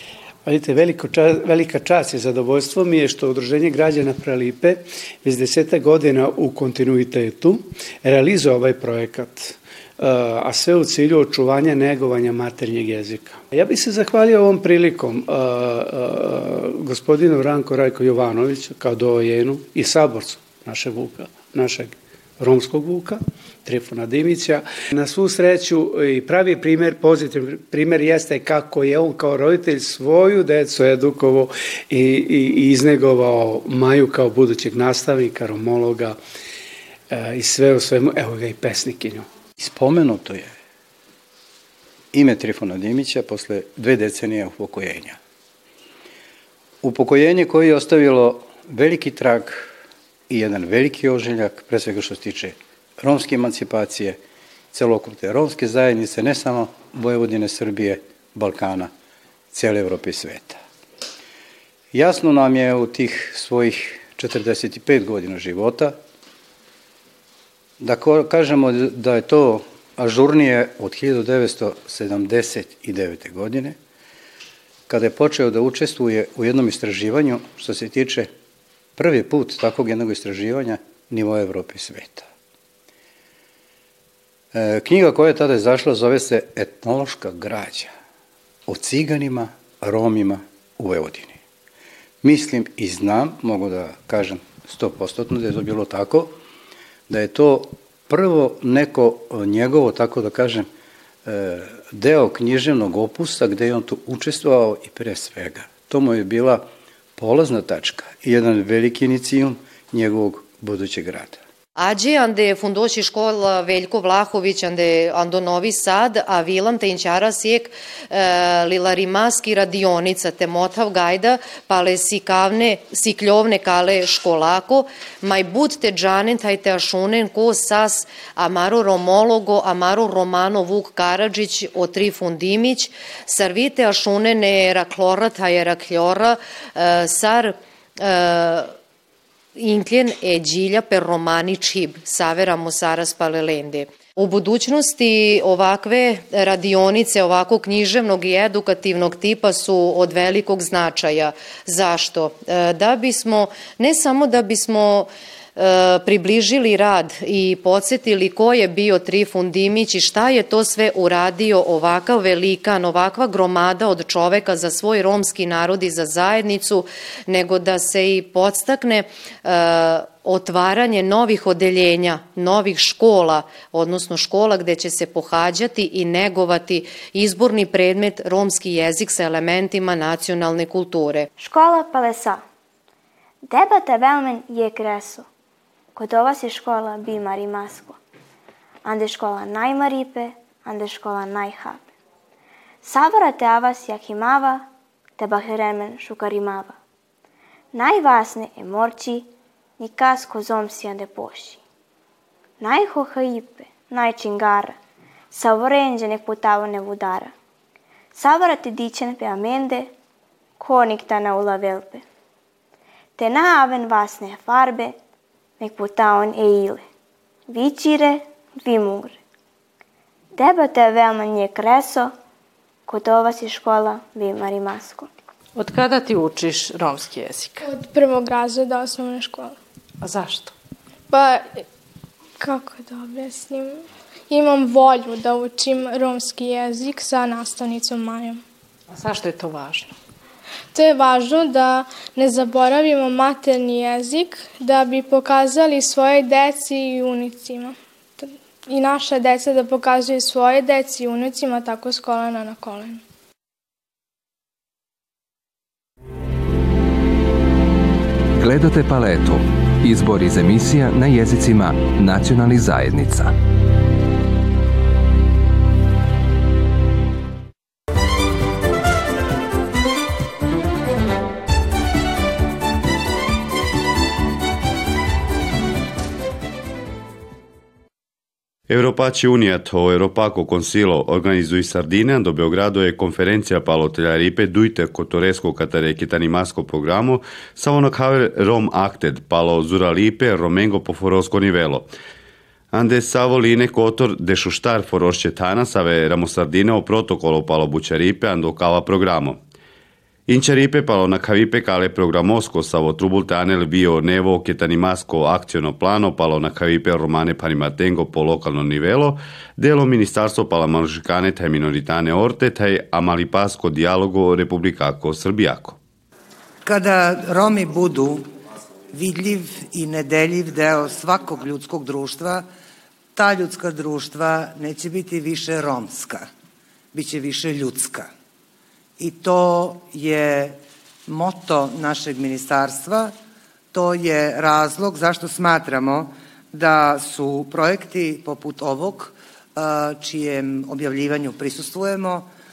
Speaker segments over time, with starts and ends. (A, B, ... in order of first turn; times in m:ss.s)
0:00.6-0:07.6 A
0:08.2-0:09.3 A
0:10.1-0:21.9 A
0:22.4-0:23.2 A
0:23.7-0:36.2 A
0:37.3-0:39.2 A
0:39.6-0:40.5 B
0:42.1-0:45.2 B
0:46.8-0:49.7 B
0:50.3-0:54.2 B
0:54.7-0:58.9 B
0:59.5-1:00.6 B
1:01.9-1:06.0 B
1:07.8-1:13.8 B
1:14.9-1:18.3 B
1:19.0-1:22.3 B
1:24.5-1:27.9 B
1:28.7-1:31.4 B
1:32.2-1:36.4 B
1:37.1-1:40.7 B
1:41.2-1:51.4 B
1:51.8-2:18.7 C
2:19.6-3:01.3 C
3:01.4-3:02.4 D
3:03.5-3:05.3 D
3:06.0-3:08.0 D
3:08.8-3:11.9 D
3:12.8-3:14.7 D
3:15.2-3:16.8 D
3:17.7-3:19.3 D
3:19.8-3:21.6 D
3:22.6-3:24.8 D
3:25.3-3:27.3 D
3:28.2-3:29.9 D
3:30.6-3:32.0 D
3:33.2-3:35.0 D
3:35.6-3:36.8 D
3:37.5-3:39.2 D
3:40.4-3:42.1 D
3:42.9-3:45.1 D
3:45.6-3:47.6 E
3:47.6-3:49.6 F
3:50.0-3:50.5 E
3:51.1-3:51.6 F
3:52.4-3:58.4 F
3:58.9-3:59.9 E
4:00.7-4:13.0 F
4:18.4-4:23.3 G
4:38.7-4:51.9 H
4:52.7-4:59.4 H
5:00.3-5:15.8 H
5:16.6-5:18.3 I
5:18.9-5:22.5 I
5:23.2-5:26.3 I
5:26.9-5:28.1 I
5:29.0-5:33.1 I
5:33.7-5:42.3 I